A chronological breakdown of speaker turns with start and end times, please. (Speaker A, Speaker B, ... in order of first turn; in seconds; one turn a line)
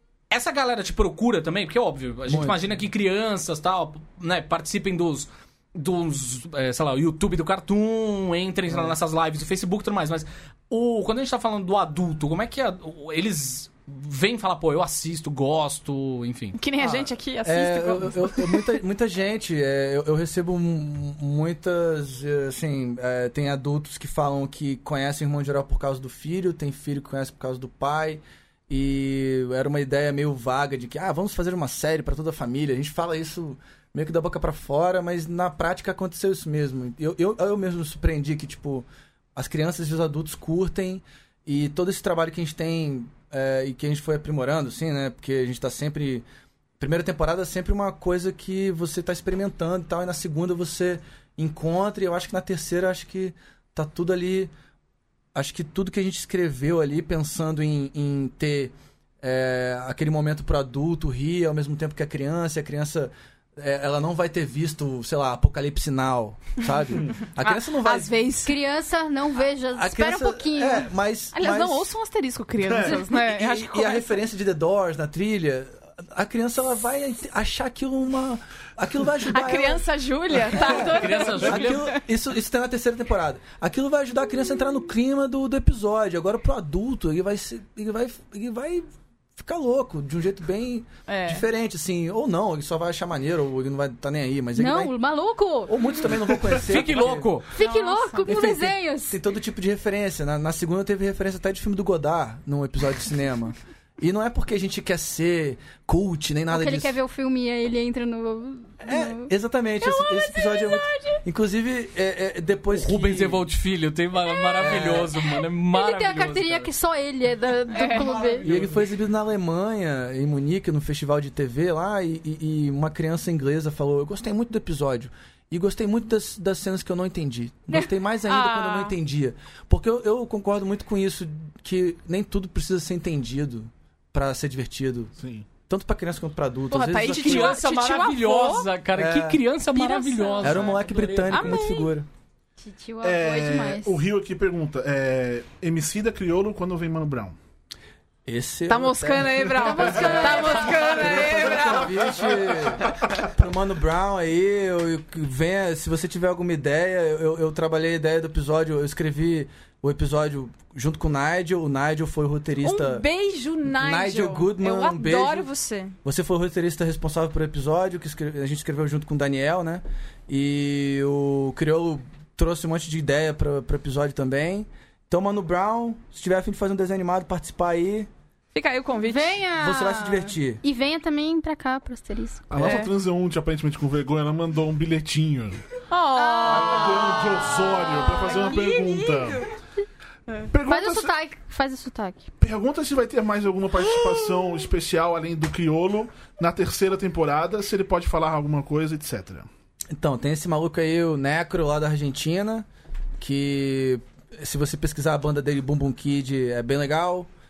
Speaker A: 0.3-16.6
Speaker B: 2.3-2.6
Speaker C: 16.5-18.7
Speaker B: 16.8-46.2
Speaker B: 46.8-54.5
Speaker B: 55.3-68.2
Speaker C: 67.4-68.6
Speaker D: 68.4-70.9
Speaker B: 69.7-71.9
Speaker C: 71.3-74.1
Speaker E: 72.6-73.0
Speaker B: 72.8-79.8
Speaker C: 79.2-82.0
Speaker B: 80.5-88.8
Speaker A: 80.5-82.0
Speaker B: 89.4-94.9
Speaker C: 91.1-91.4
Speaker D: 94.5-96.0
Speaker B: 95.7-97.3
Speaker A: 96.5-97.5
Speaker D: 97.5-99.2
Speaker C: 97.6-98.3
Speaker B: 98.2-107.0
Speaker D: 106.5-109.3
Speaker B: 108.8-113.5
Speaker D: 110.0-110.4
Speaker A: 112.7-116.7
Speaker B: 114.6-115.2
Speaker D: 115.7-118.5
Speaker C: 117.7-118.3
Speaker B: 118.4-135.1
Speaker C: 128.2-128.9
Speaker E: 135.2-135.5
Speaker B: 135.7-137.6
Speaker C: 136.7-138.7
Speaker A: 137.1-141.6
Speaker B: 138.9-139.4
Speaker C: 139.8-140.7
Speaker D: 139.9-140.3
Speaker B: 140.4-142.1
Speaker C: 141.3-141.9
Speaker D: 142.6-144.0
Speaker E: 143.0-147.4
Speaker B: 148.2-163.1
Speaker C: 148.7-152.1
Speaker D: 149.6-151.4
Speaker E: 151.9-153.2
Speaker C: 162.6-165.9
Speaker B: 163.7-165.5
Speaker B: 166.0-178.1
Speaker C: 178.5-179.4
Speaker D: 179.0-182.4
Speaker B: 179.6-180.6
Speaker E: 182.5-185.6
Speaker C: 182.6-182.9
Speaker C: 185.9-189.5
Speaker D: 186.2-187.1
Speaker E: 186.4-189.5
Speaker E: 190.5-191.1
Speaker D: 190.6-192.3
Speaker E: 192.4-199.5
Speaker B: 199.9-202.7
Speaker B: 203.2-207.3